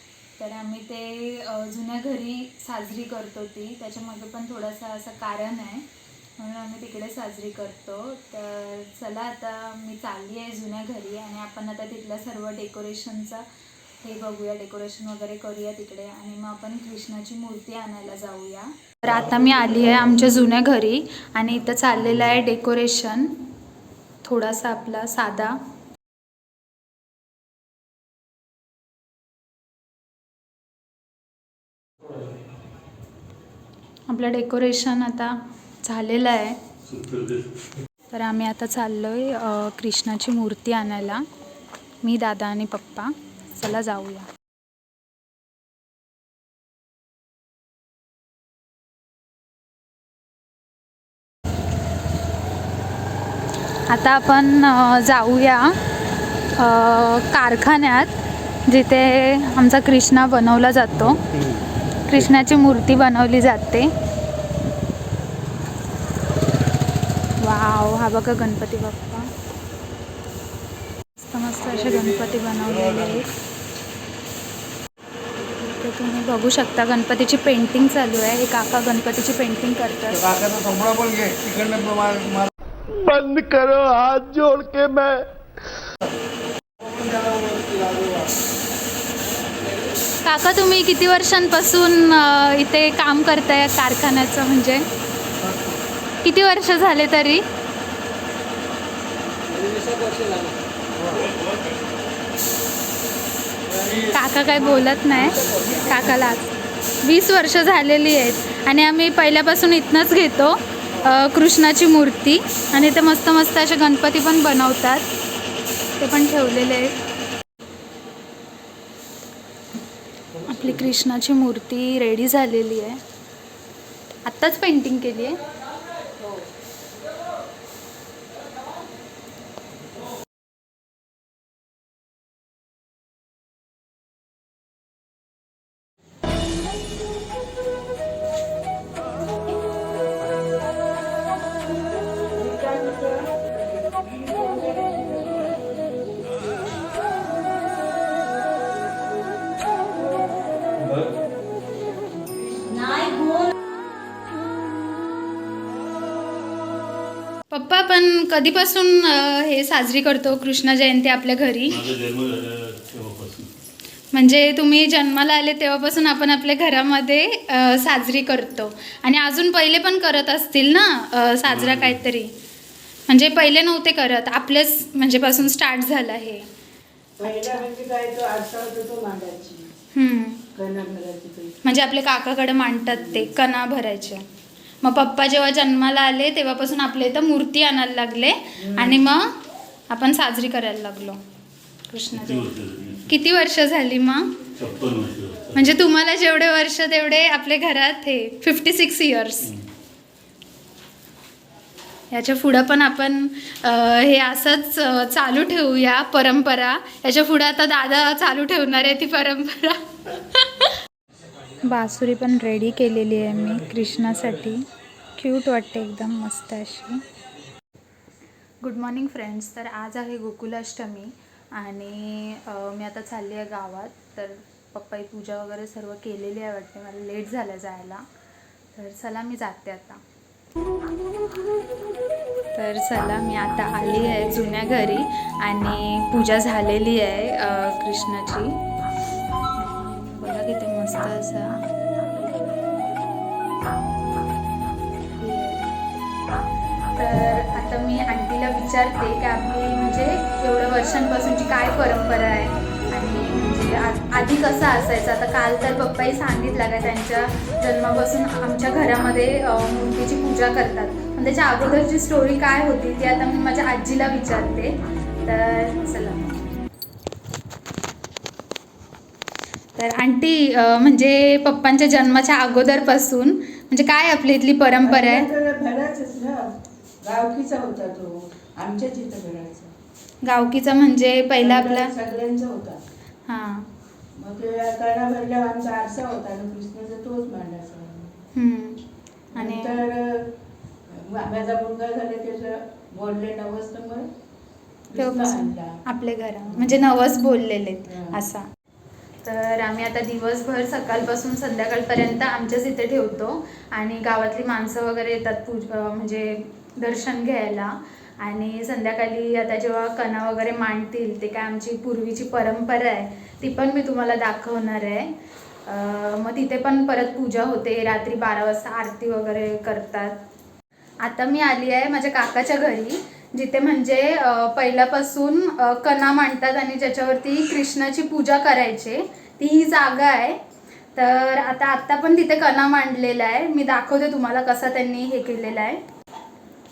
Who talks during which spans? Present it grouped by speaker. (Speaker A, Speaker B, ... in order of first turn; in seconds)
Speaker A: 0.4-5.9, 6.4-13.4, 14.0-23.4, 24.2-25.6, 34.1-36.6, 38.1-41.2, 42.0-44.3, 53.9-55.8, 56.6-58.1, 58.7-61.2, 62.1-63.9, 67.4-69.3, 71.2-73.3, 75.6-80.3, 90.2-94.8, 96.2-97.4, 104.0-106.5, 107.0-115.1, 116.0-116.9, 120.5-123.0, 124.2-125.4, 157.5-161.8, 164.1-172.3, 173.1-176.4, 179.9-180.4, 181.6-184.2, 184.8-189.3, 189.9-191.2, 191.9-192.5, 193.1-194.4, 195.5-199.5, 202.1-210.7, 211.6-214.6, 215.2-217.0, 218.6-228.0, 228.8-230.0, 232.5-238.5, 239.6-241.6, 245.2-245.7, 247.0-266.3, 269.8-275.3, 280.2-281.9, 283.3-283.7, 288.4-288.8, 289.4-289.8, 295.0-298.5, 299.2-315.1, 315.7-320.2, 321.0-330.4, 330.9-335.8
Speaker B: 36.9-37.6, 161.7-163.5, 171.5-172.0, 192.2-193.1, 194.6-195.6
Speaker C: 80.3-82.5, 87.1-88.2
Speaker D: 80.4-82.2, 83.0-85.2, 86.9-88.1
Speaker E: 142.4-145.2, 177.2-179.7, 180.6-181.6, 188.6-189.0, 274.8-279.7, 281.4-282.8, 284.2-288.2, 289.3-290.3, 290.9-294.1, 294.9-295.8, 296.5-296.8, 297.9-298.2